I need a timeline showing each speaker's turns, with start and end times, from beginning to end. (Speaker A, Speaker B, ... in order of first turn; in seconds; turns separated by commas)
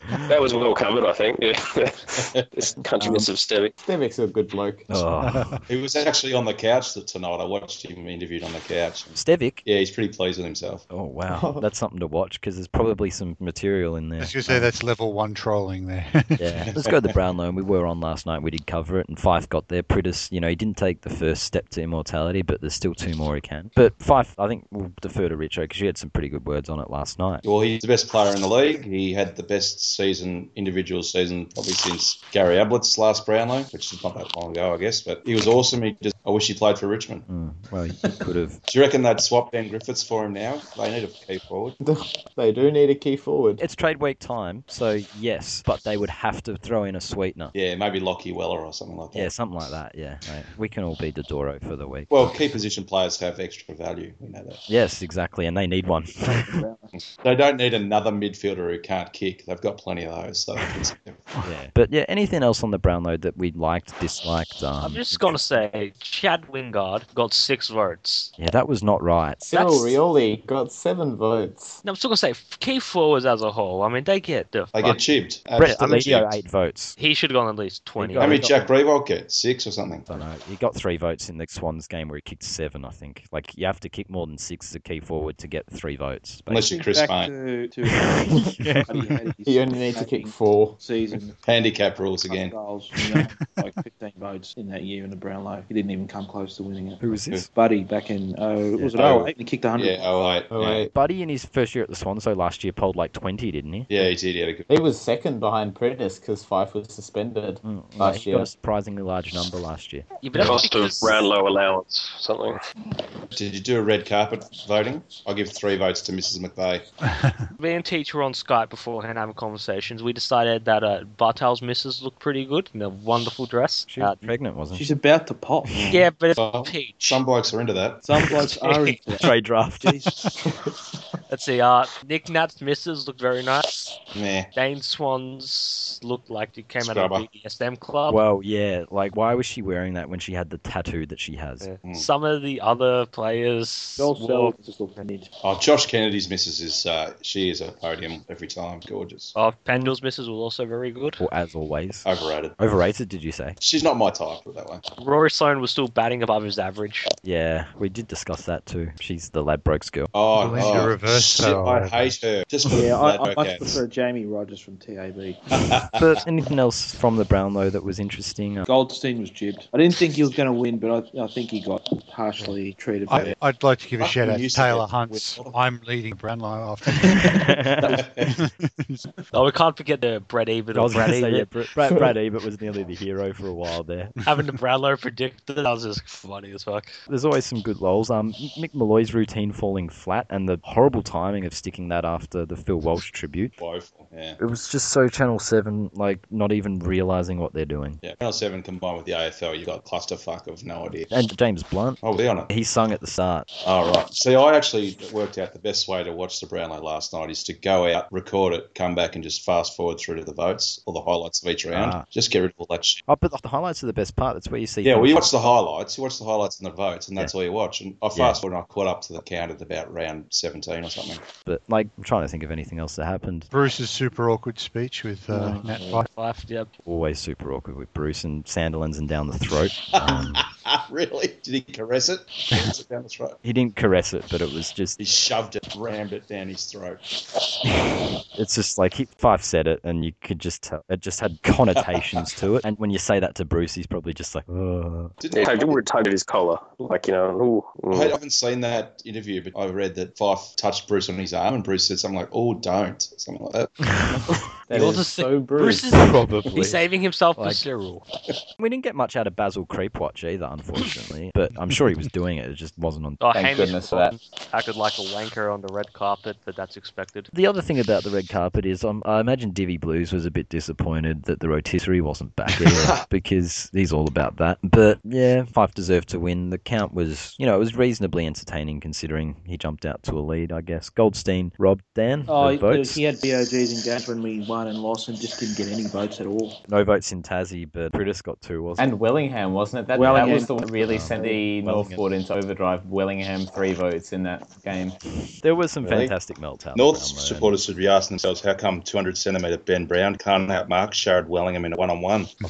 Speaker A: 0.3-3.7, Speaker B: 3.0-3.3, Speaker C: 3.8-5.0, Speaker B: 4.9-5.6, Speaker D: 5.2-5.6, Speaker E: 5.7-10.8, Speaker B: 9.1-9.6, Speaker B: 10.9-14.7, Speaker C: 11.3-11.6, Speaker D: 14.2-16.7, Speaker B: 16.4-27.4, Speaker E: 16.7-17.0, Speaker E: 27.4-37.2, Speaker B: 37.3-38.6, Speaker E: 38.7-41.8, Speaker C: 41.8-43.6, Speaker B: 43.6-47.5, Speaker E: 47.5-49.3, Speaker B: 49.1-52.1, Speaker E: 52.1-54.6, Speaker B: 54.7-56.6, Speaker F: 56.5-56.9, Speaker E: 56.9-61.3, Speaker B: 61.4-65.4, Speaker G: 64.8-68.3, Speaker B: 68.4-69.5, Speaker C: 69.4-71.8, Speaker G: 69.5-69.9, Speaker G: 71.8-75.0, Speaker E: 74.7-76.3, Speaker B: 75.6-77.0, Speaker G: 75.6-76.0, Speaker G: 77.0-78.5, Speaker B: 78.0-78.6, Speaker E: 78.2-80.1, Speaker B: 80.1-86.7, Speaker E: 86.5-87.3, Speaker F: 86.6-91.4, Speaker B: 88.0-88.8, Speaker D: 88.6-89.1, Speaker C: 89.4-90.8, Speaker E: 91.4-92.5, Speaker F: 92.3-100.2, Speaker B: 97.0-97.5, Speaker E: 99.0-100.9, Speaker C: 99.0-99.2, Speaker C: 100.5-100.9, Speaker B: 100.9-104.0, Speaker E: 103.9-104.7, Speaker C: 104.7-108.5, Speaker B: 107.6-110.1, Speaker G: 110.2-111.2, Speaker A: 110.3-112.6, Speaker E: 113.3-116.8, Speaker D: 117.0-117.5, Speaker G: 117.6-124.3, Speaker B: 123.9-124.9, Speaker F: 124.7-125.8, Speaker B: 125.7-126.0, Speaker E: 125.7-128.0, Speaker G: 125.9-127.2, Speaker F: 128.0-129.3, Speaker G: 128.3-129.1, Speaker B: 129.2-130.0, Speaker F: 129.8-130.3, Speaker G: 131.3-133.7, Speaker E: 134.1-134.5, Speaker G: 134.5-138.2, Speaker E: 136.8-137.3, Speaker B: 138.1-141.7, Speaker G: 141.6-144.6, Speaker F: 144.0-145.3, Speaker E: 145.4-149.3, Speaker G: 149.3-151.2, Speaker B: 151.2-152.1, Speaker E: 152.0-152.6, Speaker B: 152.6-153.6, Speaker E: 153.6-154.8, Speaker G: 155.0-157.1, Speaker B: 157.2-160.1, Speaker E: 160.1-163.8, Speaker D: 160.3-162.2, Speaker F: 162.7-165.4, Speaker E: 165.5-166.2, Speaker B: 165.9-168.7, Speaker F: 168.7-173.3, Speaker D: 173.1-177.5, Speaker E: 174.0-175.6, Speaker B: 177.2-177.9, Speaker E: 177.9-178.3, Speaker D: 178.2-179.1, Speaker G: 179.3-181.5, Speaker B: 180.7-184.1, Speaker G: 184.2-187.0, Speaker B: 187.1-193.6, Speaker E: 193.6-194.4, Speaker B: 194.4-198.0, Speaker E: 198.0-201.1, Speaker B: 201.1-203.5, Speaker E: 202.0-202.5, Speaker E: 203.6-213.0, Speaker B: 211.7-212.0, Speaker B: 213.1-215.5, Speaker E: 214.8-221.2, Speaker B: 218.1-218.4, Speaker B: 221.4-223.5, Speaker D: 223.5-226.1, Speaker F: 225.3-225.9, Speaker G: 226.0-226.7, Speaker B: 226.8-230.4, Speaker E: 229.9-233.4, Speaker B: 233.4-235.0, Speaker E: 235.0-237.0, Speaker B: 237.8-245.1, Speaker E: 241.9-242.3, Speaker E: 245.2-245.8, Speaker A: 245.3-248.1, Speaker E: 247.9-253.8, Speaker B: 253.9-254.3, Speaker C: 254.1-255.9, Speaker G: 254.7-258.0, Speaker B: 255.6-256.8, Speaker B: 257.4-257.6, Speaker B: 258.6-263.2, Speaker G: 263.2-267.3, Speaker C: 263.3-264.1, Speaker B: 267.3-283.0, Speaker E: 272.6-273.0, Speaker F: 282.3-286.6, Speaker B: 286.7-288.9, Speaker C: 288.8-295.0, Speaker F: 289.9-291.4, Speaker B: 290.1-292.0, Speaker B: 295.4-297.6, Speaker C: 295.8-296.1, Speaker E: 296.7-302.3